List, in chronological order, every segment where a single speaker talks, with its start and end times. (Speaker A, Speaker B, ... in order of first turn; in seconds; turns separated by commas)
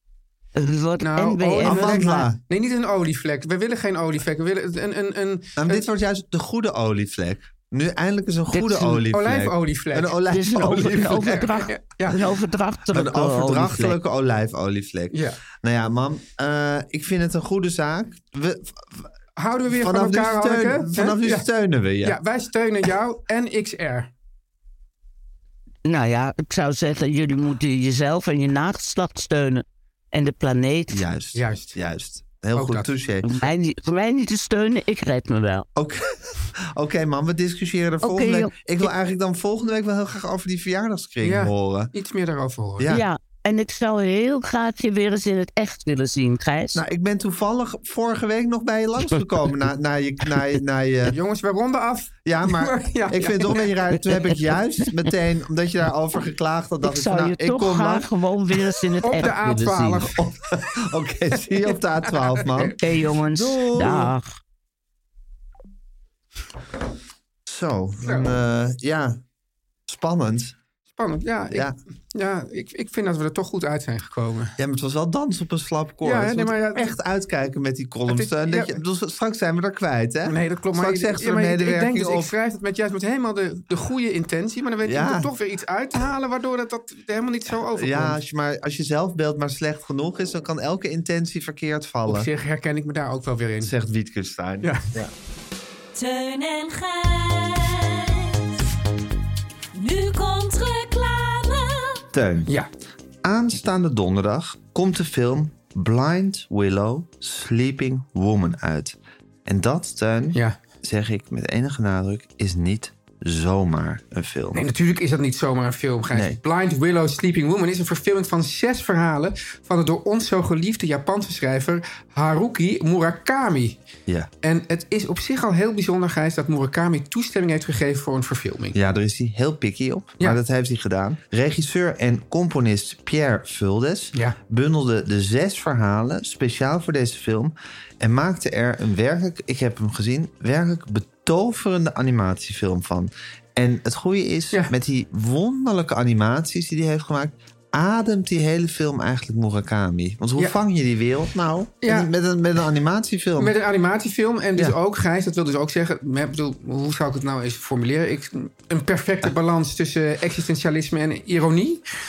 Speaker A: 0.6-2.3, Speaker B: 1.0-5.9, Speaker C: 1.6-2.4, Speaker C: 5.6-11.6, Speaker A: 8.5-9.1, Speaker B: 9.1-10.2, Speaker A: 10.3-14.0, Speaker B: 11.2-12.2, Speaker C: 12.9-19.1, Speaker B: 15.1-15.4, Speaker B: 19.4-21.5, Speaker C: 19.7-22.2, Speaker B: 22.0-24.1, Speaker A: 25.8-31.1, Speaker C: 30.9-33.3, Speaker B: 31.3-31.7, Speaker B: 32.5-32.9, Speaker A: 33.2-35.7, Speaker C: 35.8-41.9, Speaker A: 38.0-38.9, Speaker B: 41.2-42.9, Speaker C: 42.8-43.0, Speaker A: 42.9-46.8, Speaker C: 46.7-51.1, Speaker B: 51.1-53.7, Speaker C: 52.2-58.1, Speaker A: 54.1-54.4, Speaker A: 56.8-60.1, Speaker B: 59.0-60.3, Speaker C: 60.1-64.1, Speaker B: 61.6-62.8, Speaker A: 62.8-64.2, Speaker B: 63.8-64.1, Speaker C: 67.5-69.2, Speaker B: 68.0-68.3, Speaker C: 69.9-70.5, Speaker B: 71.0-74.5, Speaker C: 74.6-82.3, Speaker B: 76.0-76.9, Speaker B: 78.1-78.8, Speaker B: 80.2-88.2, Speaker C: 84.8-85.3, Speaker C: 87.7-92.3, Speaker B: 92.0-93.7, Speaker C: 93.6-95.1, Speaker B: 94.6-94.9, Speaker D: 96.0-98.6, Speaker D: 99.7-102.0, Speaker C: 102.1-102.5, Speaker C: 103.2-114.7, Speaker B: 114.5-123.8, Speaker C: 116.1-116.4, Speaker B: 124.4-128.8, Speaker C: 128.7-153.5, Speaker B: 151.8-152.1, Speaker B: 153.4-161.8